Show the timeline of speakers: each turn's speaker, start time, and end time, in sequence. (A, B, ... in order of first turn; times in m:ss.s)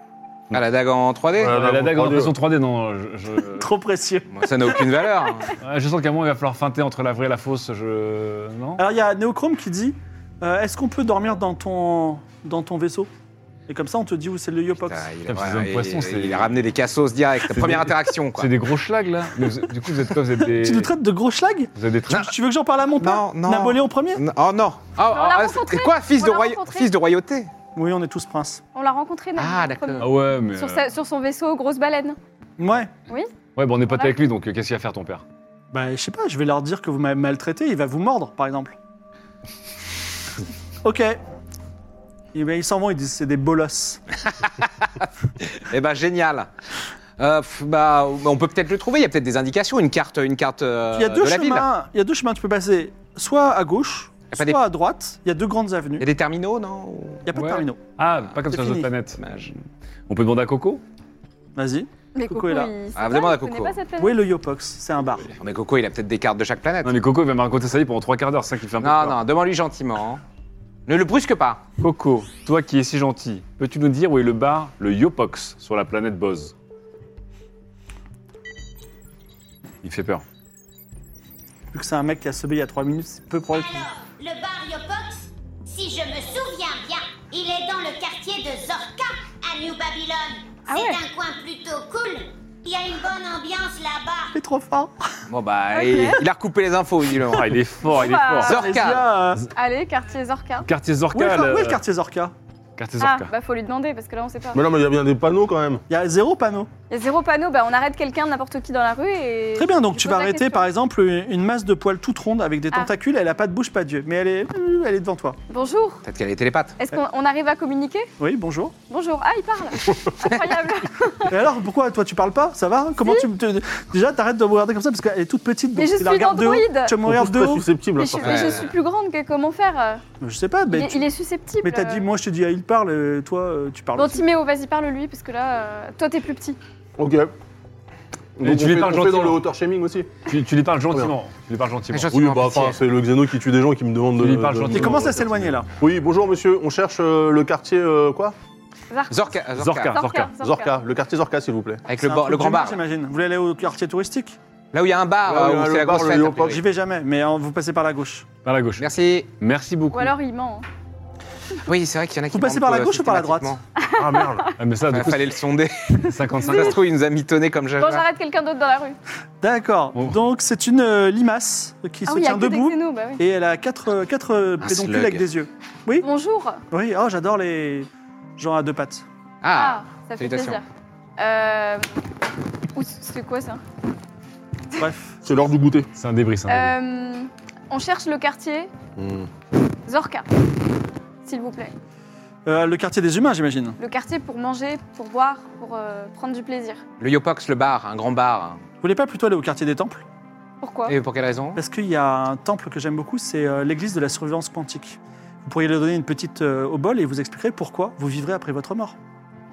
0:00.5-0:01.6 A
0:01.4-0:02.3 B
0:01.4-0:03.7 C
0:03.6-0:04.8 D
0:04.3-0:05.6 A
0:05.6-0:08.8 C
0:08.8-0:13.1 D
0:13.7-0:15.0 D
0:14.8-0:18.5 A
0:15.3-0:16.7 C
0:17.5-0:20.9 C
0:20.4-0:24.2 D
0:21.7-0:22.3 C
0:23.0-0:27.5 A
0:25.1-0:26.9 E
0:27.7-0:28.6 D
0:28.7-0:32.2 E
0:29.4-0:30.1 A
0:30.0-0:30.9 C
0:32.6-0:32.9 D
0:33.1-0:33.3 E
0:33.6-0:35.2 C
0:33.9-0:34.2 E
0:35.7-0:38.7 D
0:40.8-0:41.2 D
0:42.3-0:44.0 D
0:44.6-0:46.5 A
0:47.2-0:51.7 A
0:50.9-0:56.1 D
0:54.3-0:54.6 A
0:56.0-0:57.2 A
0:57.2-0:57.8 D
0:57.3-0:59.5 C
0:58.5-0:58.9 D
0:59.2-0:59.5 A
1:00.1-1:00.8 C
1:01.6-1:02.7 D
1:02.1-1:04.2 E
1:02.9-1:03.8 A
1:04.0-1:05.3 D
1:05.4-1:07.0 A
1:06.8-1:09.2 C
1:08.8-1:10.2 A
1:10.9-1:11.6 A
1:11.8-1:16.5 C
1:19.8-1:20.2 C
1:21.7-1:23.9 D
1:23.5-1:34.3 F
1:30.7-1:31.0 E
1:34.3-1:34.9 D
1:35.3-1:37.6 A
1:35.7-1:36.2 E
1:37.3-1:38.6 C
1:37.9-1:38.6 E
1:38.4-1:39.1 A
1:38.5-1:39.4 D
1:39.5-1:40.7 E
1:40.6-1:41.8 C
1:41.1-1:42.3 D
1:42.8-1:43.3 C
1:43.0-1:44.6 E
1:44.5-1:45.8 B
1:45.9-1:46.7 D
1:46.9-1:50.6 E
1:49.6-1:55.4 D
1:55.5-1:56.0 E
1:56.0-1:56.8 A
1:56.8-1:58.1 E
1:58.2-1:58.7 D
1:58.9-2:01.4 E
2:00.3-2:00.5 A
2:01.3-2:07.7 D
2:03.0-2:03.3 E
2:05.7-2:07.0 E
2:07.0-2:08.6 B
2:07.9-2:10.0 E
2:08.2-2:08.7 A
2:10.2-2:11.1 D
2:10.7-2:12.1 E
2:11.6-2:14.2 D
2:14.0-2:16.6 E
2:17.0-2:17.3 B
2:18.4-2:20.1 B
2:18.4-2:19.4 C
2:20.3-2:22.4 C
2:21.9-2:22.8 A
2:22.1-2:25.0 B
2:24.2-2:25.6 C
2:24.7-2:25.7 D
2:25.8-2:28.3 B
2:28.9-2:29.2 E
2:29.1-2:30.0 A
2:29.6-2:30.3 C
2:29.9-2:30.8 E
2:30.4-2:31.8 B
2:31.9-2:32.8 A
2:32.0-2:34.4 D
2:34.7-2:36.6 A
2:35.2-2:36.6 B
2:36.5-2:38.2 D
2:38.4-2:38.9 C
2:38.8-2:39.3 A
2:39.4-2:40.1 C
2:39.9-2:40.6 E
2:41.6-2:43.6 A
2:42.3-2:43.6 D
2:43.8-2:44.5 E
2:44.0-2:44.5 B
2:44.6-2:45.4 C
2:44.9-2:48.0 A
2:46.0-2:46.8 C
2:46.4-2:46.8 E
2:47.8-2:49.0 E
2:49.4-2:56.0 D
2:52.0-2:53.2 E
2:54.6-2:55.2 A
2:56.0-2:56.6 E
2:56.7-2:59.0 D
2:59.4-3:00.6 A
2:59.5-3:00.6 E
3:01.2-3:01.8 E
3:02.7-3:03.6 E
3:04.8-3:05.2 D
3:05.2-3:05.9 B
3:05.9-3:06.7 C
3:06.5-3:08.7 E
3:09.0-3:09.3 B
3:09.8-3:10.3 E
3:11.2-3:11.7 E
3:12.4-3:13.8 D
3:13.8-3:16.8 E
3:17.0-3:18.6 A
3:18.8-3:20.0 D
3:20.6-3:20.9 E
3:20.9-3:21.6 A
3:21.6-3:29.0 D